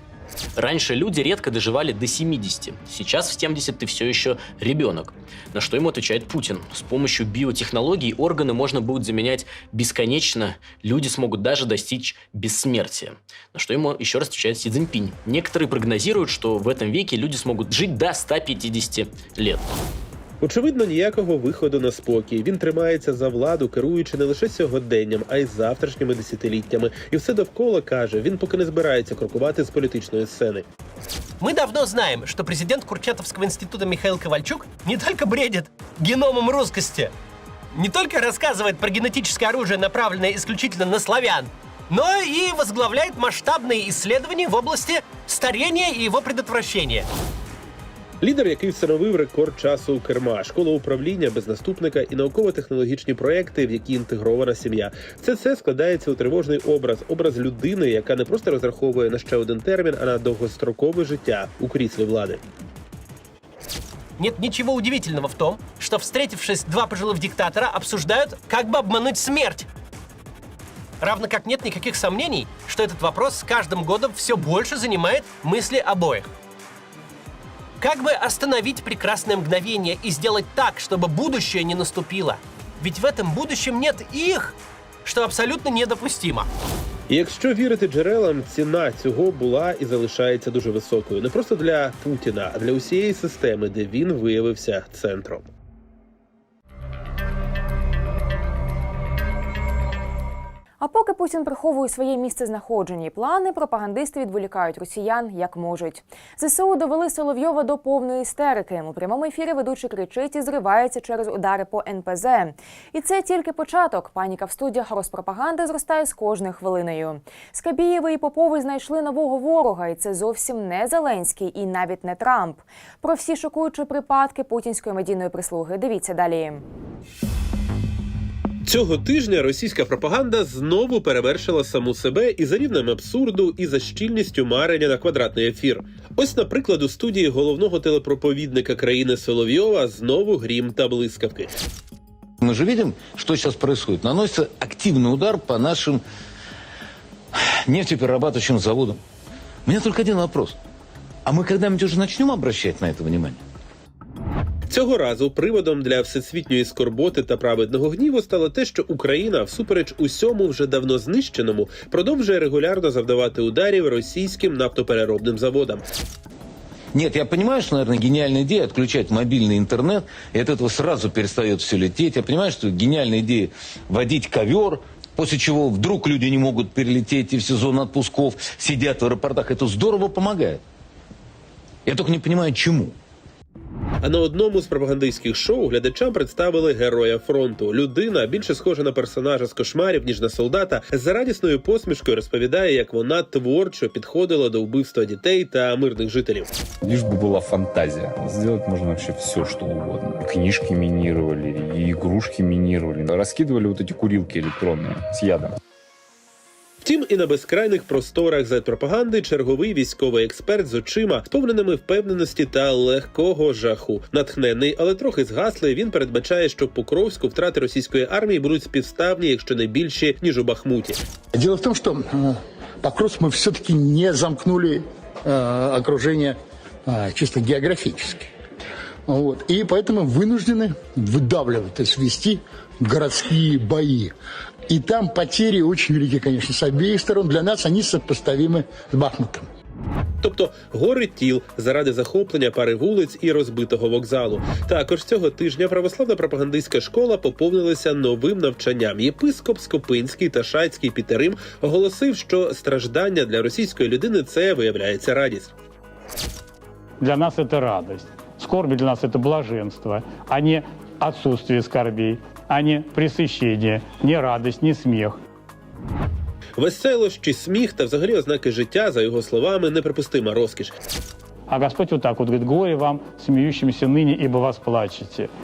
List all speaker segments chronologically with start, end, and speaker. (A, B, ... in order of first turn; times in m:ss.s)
0:00.6-0:05.0 A
0:05.6-0:19.6 A
0:20.4-0:30.6 B
0:31.4-0:37.1 C
0:37.7-0:47.1 C
0:48.2-1:02.4 B
1:04.2-1:09.7 C
1:11.0-1:16.3 C
1:17.8-1:26.5 C
1:27.1-1:35.5 B
1:40.8-2:06.6 D
2:08.6-2:21.5 B
2:22.4-2:26.0 E
2:27.3-2:29.0 E
2:29.7-2:30.6 E
2:31.2-2:33.4 E
2:34.7-2:45.8 B
2:46.9-3:00.6 E
3:01.8-3:03.0 E
3:04.0-3:16.5 B
3:16.8-3:25.6 F
3:26.8-3:41.0 B
3:41.3-3:48.3 G
3:49.1-3:54.1 G
3:54.7-3:59.4 G
4:00.2-4:15.5 B
4:17.0-4:25.2 H
4:26.6-4:30.7 B
4:31.5-4:35.3 H